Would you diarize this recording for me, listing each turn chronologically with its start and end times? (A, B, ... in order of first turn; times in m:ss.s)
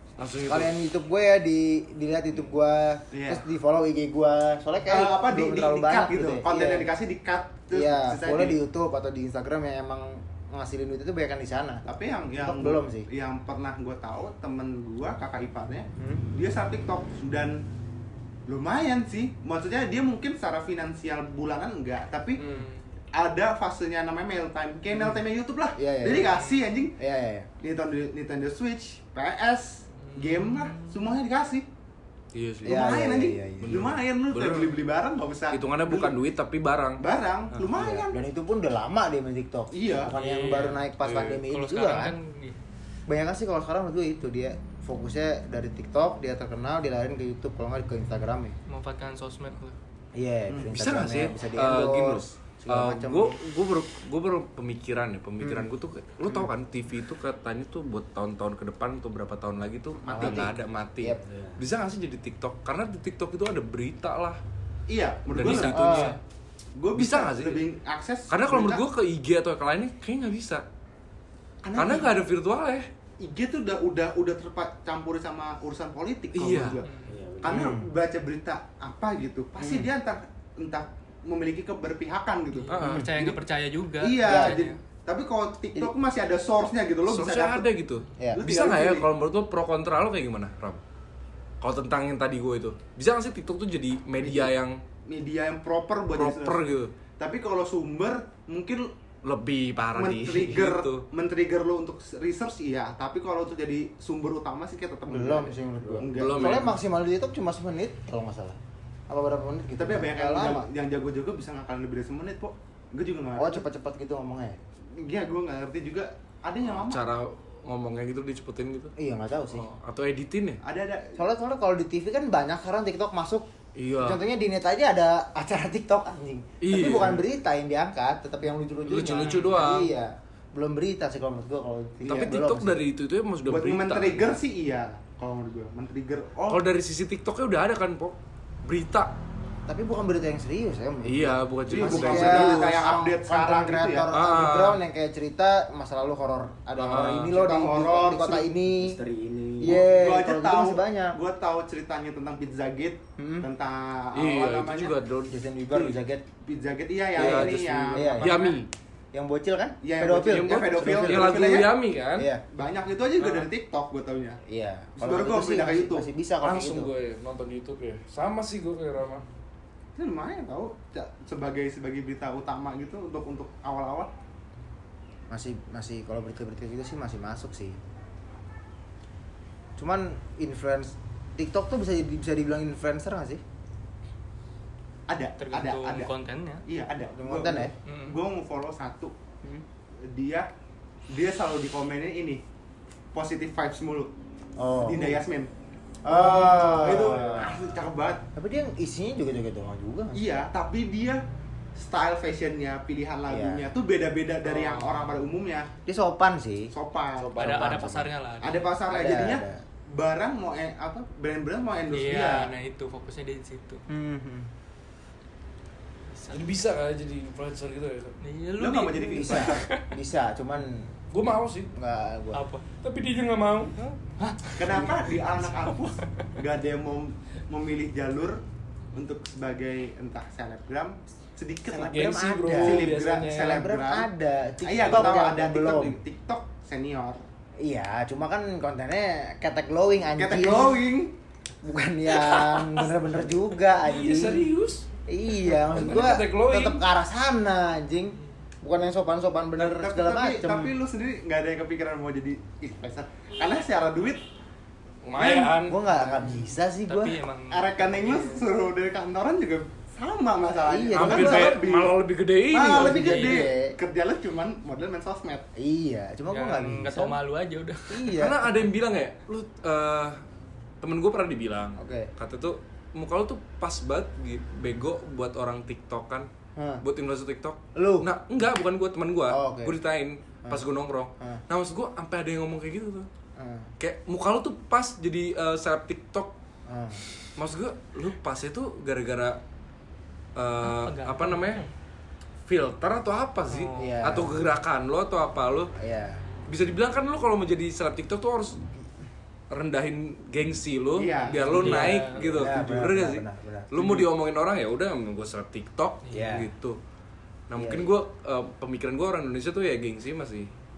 0:00.2-0:00.7 A
0:00.5-0:06.9 B
0:03.1-0:03.4 C
0:04.9-0:08.6 C
0:07.7-0:13.1 B
0:11.8-0:17.6 C
0:18.5-0:22.4 C
0:22.4-0:22.8 D
0:23.1-0:27.0 C
0:25.8-0:26.4 B
0:27.0-0:27.5 B
0:27.6-0:31.6 C
0:30.0-0:31.1 D
0:32.3-0:33.0 A
0:32.6-0:33.8 B
0:32.6-0:36.1 C
0:33.6-0:34.9 A
0:35.5-0:37.0 A
0:37.0-0:38.2 C
0:37.7-0:42.1 B
0:39.7-0:40.1 C
0:40.1-0:40.8 D
0:41.0-0:41.4 A
0:41.5-0:42.6 D
0:43.1-0:48.6 B
0:48.7-0:49.8 D
0:50.2-0:53.4 B
0:50.7-1:04.4 A
0:55.4-0:55.6 B
1:00.0-1:00.5 C
1:00.1-1:01.2 B
1:01.3-1:01.6 E
1:04.9-1:06.1 C
1:05.4-1:06.2 A
1:05.4-1:06.2 B
1:06.8-1:08.8 C
1:06.9-1:07.6 A
1:08.3-1:10.6 A
1:11.6-1:12.1 C
1:11.8-1:12.8 A
1:13.2-1:16.9 C
1:16.3-1:16.8 A
1:16.8-1:17.1 D
1:17.1-1:17.7 E
1:17.4-1:23.4 C
1:17.4-1:17.9 B
1:19.6-1:19.9 B
1:22.5-1:24.8 D
1:22.7-1:23.0 A
1:24.0-1:27.7 C
1:24.2-1:24.6 B
1:27.1-1:30.8 A
1:28.3-1:29.1 C
1:31.6-1:34.8 A
1:34.2-1:34.5 C
1:35.1-1:38.9 C
1:36.1-1:36.9 A
1:39.2-1:41.0 A
1:40.0-1:46.6 C
1:45.1-1:48.6 B
1:46.1-1:46.7 A
1:49.1-1:50.6 B
1:49.8-1:53.6 C
1:53.4-1:54.6 B
1:54.9-1:57.1 C
1:56.6-1:58.9 A
1:59.0-1:59.7 B
1:59.5-2:00.6 A
2:00.6-2:01.2 C
2:01.2-2:03.4 B
2:03.8-2:04.2 A
2:04.0-2:12.8 B
2:06.6-2:07.2 A
2:08.9-2:09.9 A
2:12.0-2:14.4 A
2:13.4-2:16.6 C
2:16.5-2:19.1 A
2:19.7-2:29.0 B
2:21.0-2:22.9 A
2:21.7-2:24.1 C
2:24.1-2:24.8 A
2:26.8-2:27.4 A
2:26.9-2:28.5 C
2:28.7-2:29.8 E
2:29.6-2:31.2 B
2:29.6-2:35.0 C
2:33.2-2:33.5 B
2:34.1-2:36.0 A
2:35.3-2:36.2 B
2:36.4-2:38.6 C
2:37.1-2:38.7 A
2:37.2-2:38.4 B
2:39.1-2:41.5 B
2:39.8-2:41.8 C
2:40.2-2:42.3 A
2:42.2-2:42.4 B
2:42.5-2:44.4 C
2:43.2-2:43.5 A
2:44.4-2:46.9 B
2:45.0-2:46.1 C
2:46.4-2:49.2 A
2:50.0-2:54.1 C
2:55.3-2:57.8 B
2:59.8-3:03.4 B
3:05.1-3:06.1 C
3:05.4-3:06.6 D
3:06.6-3:09.1 C
3:07.1-3:07.7 B
3:07.8-3:08.2 D
3:10.1-3:10.5 C
3:11.1-3:12.4 C
3:13.1-3:14.1 C
3:14.6-3:15.2 B
3:14.8-3:15.5 C
3:16.0-3:17.6 B
3:16.0-3:18.2 C
3:18.4-3:20.4 B
3:20.1-3:21.2 C
3:21.8-3:25.7 C
3:23.3-3:23.6 B
3:24.4-3:25.1 D
3:25.8-3:26.7 B
3:26.7-3:27.4 C
3:27.2-3:28.0 A
3:27.4-3:28.7 D
3:27.6-3:28.0 B
3:28.4-3:32.5 C
3:28.9-3:29.6 B
3:31.9-3:33.8 D
3:33.9-3:34.5 B
3:36.2-3:36.4 D
3:36.3-3:38.2 A
3:38.2-3:39.9 D
3:38.6-3:39.6 C
3:39.1-3:40.9 B
3:41.1-3:41.7 A
3:41.7-3:42.4 B
3:42.3-3:42.6 D
3:42.8-3:43.7 A
3:44.2-3:46.3 D
3:44.6-3:48.4 C
3:48.9-3:51.9 C
3:51.7-3:56.0 B
3:51.8-3:53.7 A
3:52.5-3:54.1 C
3:54.6-3:57.2 C
3:57.6-4:00.8 B
4:00.2-4:01.1 C
4:01.6-4:04.4 B
4:02.3-4:02.6 D
4:03.8-4:04.8 A
4:05.1-4:10.7 B
4:05.5-4:06.8 A
4:09.6-4:14.2 C
4:15.0-4:15.8 A
4:15.2-4:15.5 C
4:15.5-4:17.2 B
4:16.2-4:18.5 D
4:17.5-4:21.9 C
4:20.5-4:21.6 B
4:20.9-4:23.1 A
4:22.5-4:25.5 C
4:22.5-4:23.8 B
4:23.0-4:23.4 D
4:25.6-4:27.2 B
4:26.3-4:28.1 D
4:27.9-4:28.5 B
4:28.1-4:30.2 A
4:30.8-4:36.3 A
4:31.8-4:32.1 B
4:36.6-4:36.8 B
4:36.8-4:43.1 A
4:37.7-4:38.1 B
4:39.3-4:39.8 B
4:43.4-4:43.7 B
4:43.8-4:46.3 A
4:46.7-4:47.0 B
4:47.4-4:49.4 A
4:50.4-4:51.6 A
4:50.6-4:51.7 D
4:52.5-4:55.7 A
4:53.4-4:54.1 D
4:53.8-4:54.3 B
4:55.8-4:56.2 B
4:56.5-4:58.6 A
4:59.5-5:06.8 A
5:01.0-5:02.5 C
5:01.4-5:02.2 D
5:02.2-5:04.0 B
5:06.1-5:06.5 B
5:07.5-5:10.5 A
5:07.6-5:07.9 B